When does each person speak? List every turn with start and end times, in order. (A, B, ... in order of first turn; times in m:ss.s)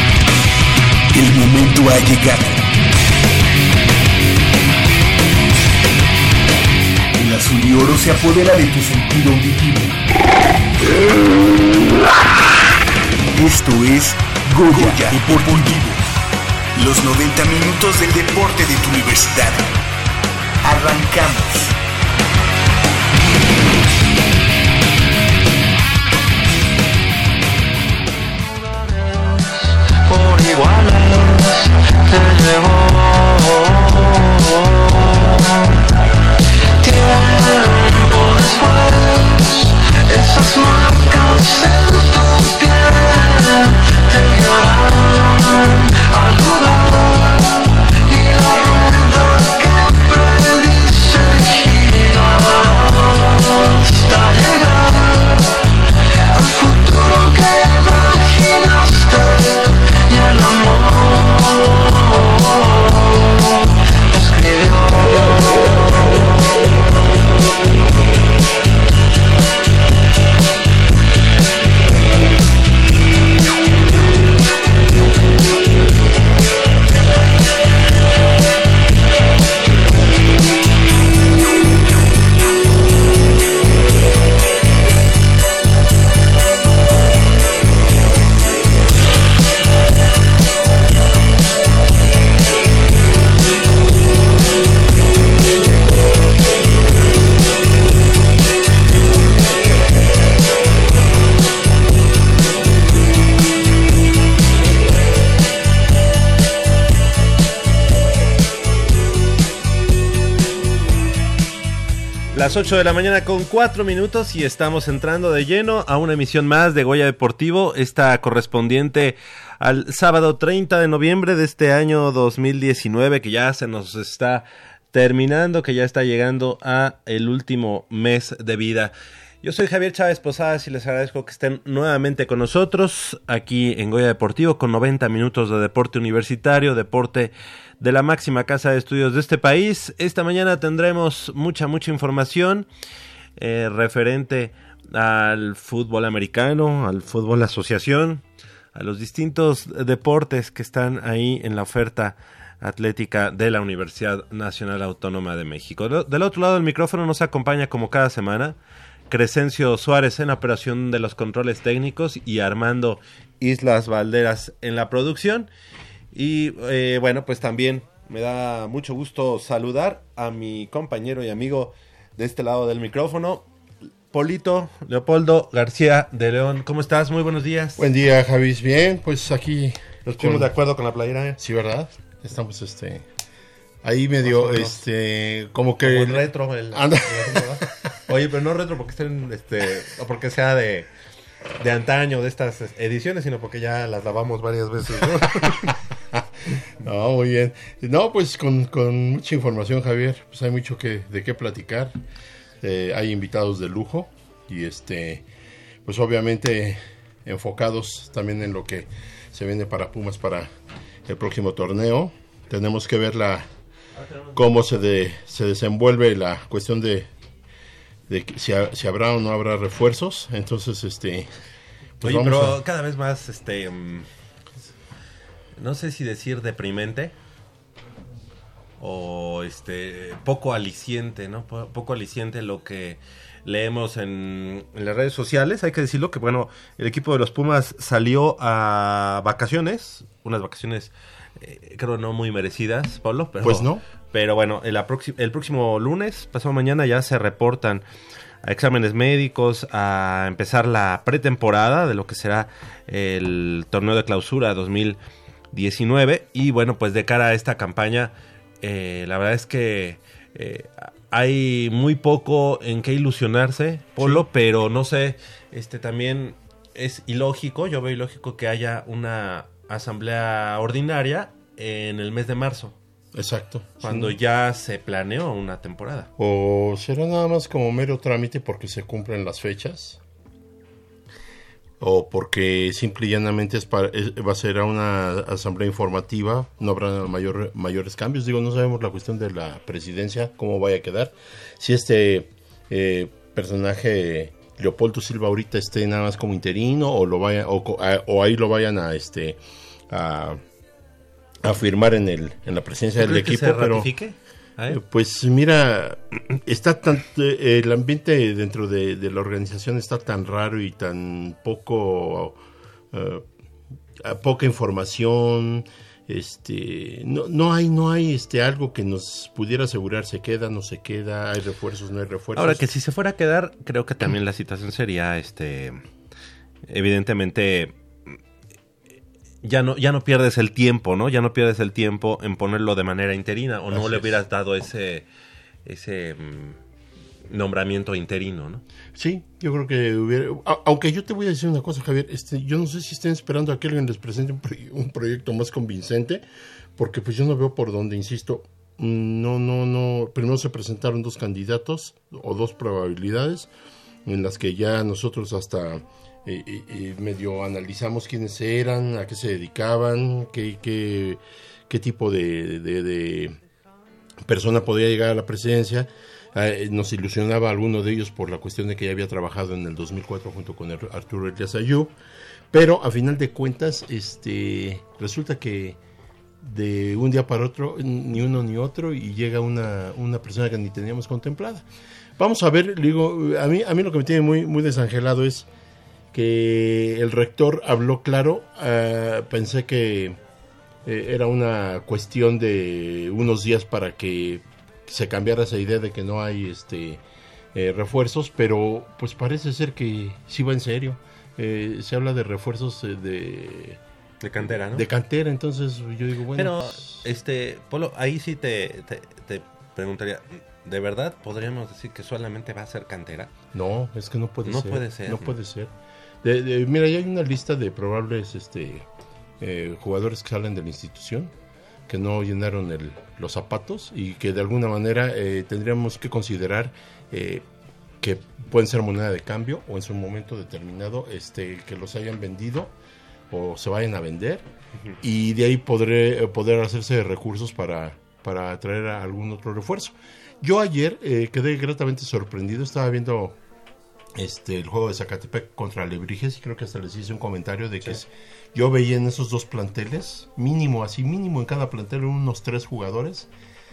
0:01.1-0:02.6 A
0:07.1-0:10.0 A
0:13.3-0:16.0 A
0:16.8-0:19.6 A
0:20.6-0:21.7 A
0:30.1-0:31.4 B
0:32.2-0:32.9 B
0:36.8-0:39.3 B
0:40.1-0:43.4 B
0:44.1-0:45.2 B
0:46.1-0:47.0 B
0:48.2-0:52.7 B
0:54.0-0:54.9 B
0:56.4-0:59.4 B
1:00.1-1:01.6 B
1:04.2-1:04.8 B
1:52.3-2:22.7 C
2:23.4-2:28.2 C
2:28.7-2:38.6 C
2:39.1-2:45.5 C
2:46.1-2:53.5 C
2:54.1-2:57.8 C
2:57.8-3:00.5 D
3:00.1-3:01.4 C
3:01.4-3:03.0 D
3:03.8-3:07.6 D
3:04.2-3:04.8 C
3:05.8-3:10.9 C
3:11.6-3:15.8 C
3:15.3-3:22.0 D
3:22.6-3:25.3 D
3:25.8-3:30.5 D
3:31.0-3:33.5 D
3:34.0-3:34.4 C
3:34.3-3:37.1 D
3:38.1-3:41.3 D
3:42.0-3:42.6 D
3:42.0-3:44.1 C
3:45.6-3:47.1 C
3:48.8-4:07.8 C
4:03.4-4:03.8 D
4:08.4-4:15.0 C
4:15.5-4:32.8 C
4:33.1-4:34.2 D
4:33.8-4:36.1 C
4:36.2-4:40.0 D
4:41.8-5:00.4 D
5:01.4-5:03.9 D
5:03.0-5:04.8 C
5:04.7-5:12.4 D
5:12.9-5:13.3 D
5:14.0-5:22.7 D
5:22.3-5:25.8 C
5:26.7-5:28.1 C
5:29.4-5:35.0 C
5:33.7-5:34.2 D
5:35.6-5:36.6 C
5:37.3-5:38.6 C
5:38.9-5:53.5 D
5:54.0-6:03.4 D
6:04.2-6:11.9 D
6:12.5-6:15.8 D
6:16.4-6:21.6 D
6:22.2-6:25.5 D
6:26.1-6:30.2 D
6:30.8-6:37.0 D
6:37.5-6:43.8 D
6:44.2-6:44.8 C
6:44.4-6:47.0 D
6:46.3-6:53.3 C
6:53.5-6:58.8 D
6:54.4-6:55.3 C
6:59.4-7:01.3 D
7:01.9-7:07.5 D
7:08.0-7:12.7 D
7:13.3-7:14.5 D
7:15.0-7:23.4 D
7:24.1-7:33.3 D